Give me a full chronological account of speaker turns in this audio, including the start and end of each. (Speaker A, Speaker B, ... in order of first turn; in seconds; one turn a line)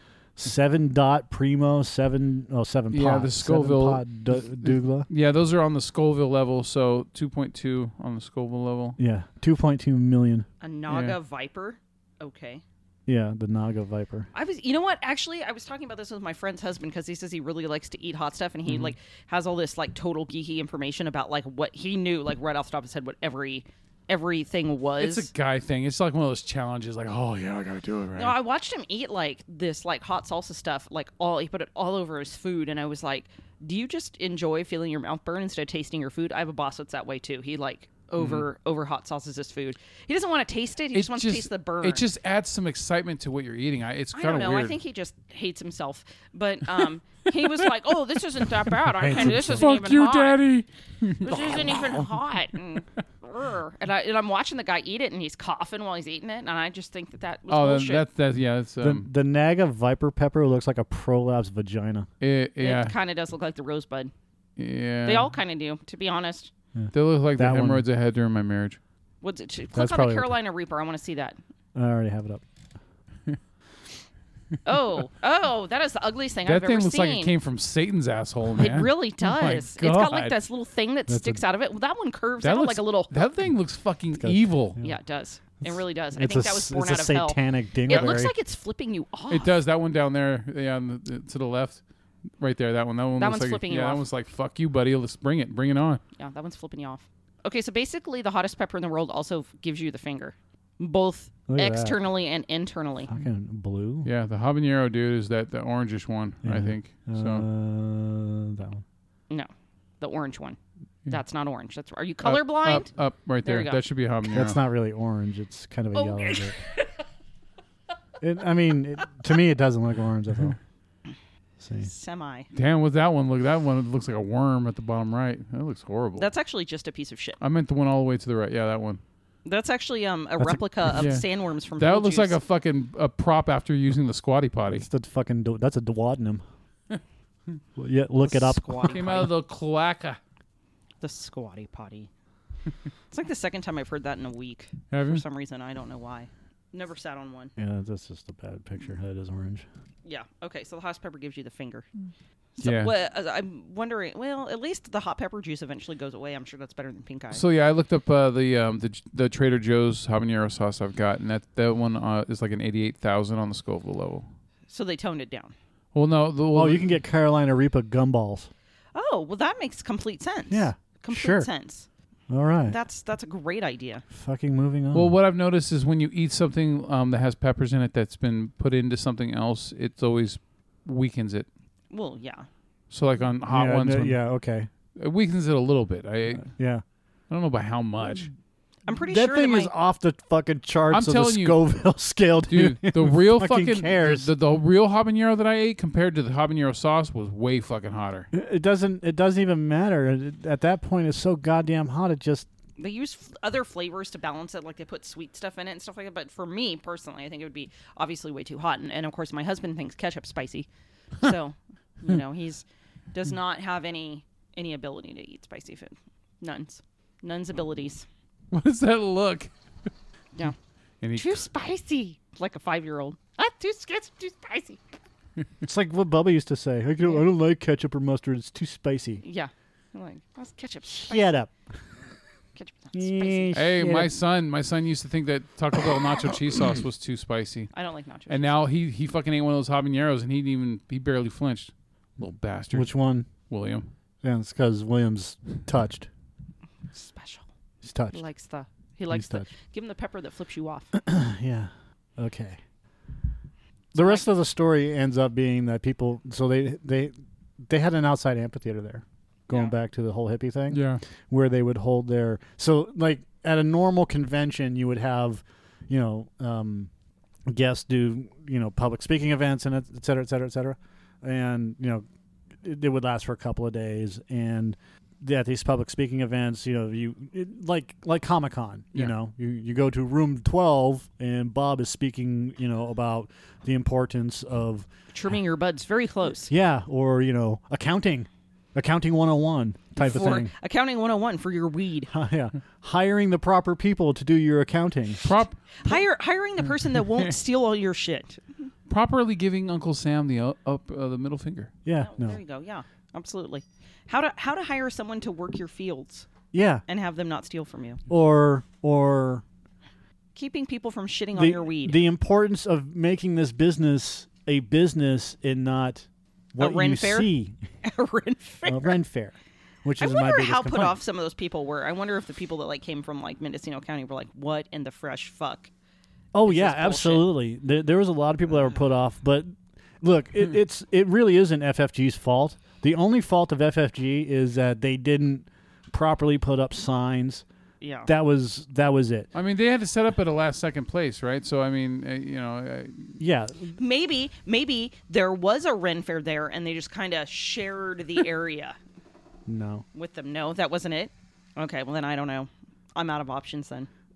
Speaker A: 0.4-5.1
Speaker B: 2.9-9.0
Speaker A: 9.0-10.5
Speaker C: 10.6-12.6
Speaker B: 10.9-11.2
Speaker A: 13.1-14.3
Speaker C: 14.3-25.3
Speaker B: 25.0-28.4
Speaker C: 28.2-42.0
Speaker B: 38.2-38.5
Speaker B: 40.9-44.8
Speaker C: 44.1-50.4
Speaker B: 49.0-52.1
Speaker A: 49.1-49.6
Speaker C: 51.2-58.0
Speaker B: 57.5-59.1
Speaker A: 58.8-62.1
Speaker B: 62.2-63.0
Speaker C: 62.6-64.1
Speaker B: 64.6-65.3
Speaker C: 65.0-66.5
Speaker A: 66.8-67.8
Speaker B: 66.9-68.8
Speaker C: 69.2-71.4
Speaker A: 69.7-70.3
Speaker A: 71.8-72.4
Speaker C: 74.7-77.3
Speaker B: 76.5-80.4
Speaker C: 78.6-83.2
Speaker A: 81.1-81.4
Speaker B: 82.4-84.8
Speaker A: 84.2-84.9
Speaker C: 84.8-89.5
Speaker A: 85.6-88.3
Speaker B: 89.3-91.8
Speaker B: 92.4-96.0
Speaker C: 93.2-94.0
Speaker C: 96.2-103.1
Speaker A: 101.5-102.0
Speaker A: 103.1-104.1
Speaker B: 104.0-107.5
Speaker A: 106.4-108.8
Speaker C: 110.0-112.9
Speaker B: 112.2-114.6
Speaker C: 113.5-113.8
Speaker A: 114.2-116.6
Speaker C: 115.9-116.8
Speaker A: 118.2-120.6
Speaker A: 121.6-121.9
Speaker C: 121.8-122.5
Speaker B: 122.5-126.3
Speaker C: 126.2-127.4
Speaker B: 127.4-129.0
Speaker C: 129.4-132.4
Speaker A: 130.4-131.0
Speaker B: 130.9-134.9
Speaker A: 134.7-136.4
Speaker A: 137.8-139.1
Speaker C: 138.2-139.3
Speaker B: 138.8-140.2
Speaker C: 141.0-142.1
Speaker C: 143.1-147.5
Speaker B: 144.9-145.2
Speaker A: 147.6-149.7
Speaker C: 150.1-151.9
Speaker C: 152.6-157.4
Speaker B: 152.6-152.9
Speaker B: 157.3-164.3
Speaker C: 164.7-165.5
Speaker B: 165.9-166.9
Speaker A: 166.5-168.5
Speaker C: 168.9-171.9
Speaker A: 170.5-171.5
Speaker A: 172.3-172.8
Speaker C: 172.7-174.0
Speaker A: 174.1-175.2
Speaker B: 174.9-181.5
Speaker C: 181.9-182.5
Speaker B: 182.9-184.2
Speaker A: 183.5-184.7
Speaker B: 185.0-186.5
Speaker A: 186.4-186.8
Speaker B: 187.3-188.3
Speaker C: 188.9-189.7
Speaker A: 189.1-194.3
Speaker B: 190.9-191.6
Speaker B: 192.5-198.3
Speaker A: 198.3-202.5
Speaker C: 202.8-218.1
Speaker B: 218.5-219.5
Speaker B: 221.0-221.4
Speaker C: 221.2-224.8
Speaker A: 225.6-229.2
Speaker C: 229.2-231.4
Speaker A: 230.9-231.5
Speaker C: 232.6-233.6
Speaker A: 232.9-234.1
Speaker B: 233.5-237.7
Speaker C: 237.7-238.5
Speaker B: 238.3-242.9
Speaker A: 242.7-243.3
Speaker B: 243.5-243.9
Speaker A: 244.2-246.1
Speaker C: 246.9-247.5
Speaker A: 247.8-248.2
Speaker C: 248.1-250.9
Speaker A: 249.1-249.5
Speaker A: 250.9-252.6
Speaker A: 253.9-266.9
Speaker C: 254.0-254.3
Speaker B: 260.7-261.0
Speaker A: 267.5-272.1
Speaker A: 272.6-284.9
Speaker C: 285.1-286.5
Speaker A: 286.5-290.5
Speaker C: 290.0-292.1
Speaker A: 292.1-295.3
Speaker B: 295.2-295.6
Speaker C: 295.8-298.7
Speaker B: 298.9-301.7
Speaker A: 301.9-302.4
Speaker C: 302.0-306.3
Speaker A: 306.5-306.8
Speaker C: 306.9-308.0
Speaker A: 308.1-309.4
Speaker C: 310.4-312.0
Speaker A: 311.4-317.6
Speaker C: 316.6-317.3
Speaker C: 317.8-319.0
Speaker A: 318.6-321.0
Speaker C: 320.0-325.7
Speaker A: 326.3-337.4
Speaker C: 326.5-327.3
Speaker C: 337.8-338.1
Speaker A: 338.1-339.3
Speaker B: 339.3-343.2
Speaker A: 343.2-343.8
Speaker C: 343.8-348.8
Speaker A: 349.5-349.9
Speaker C: 349.9-353.9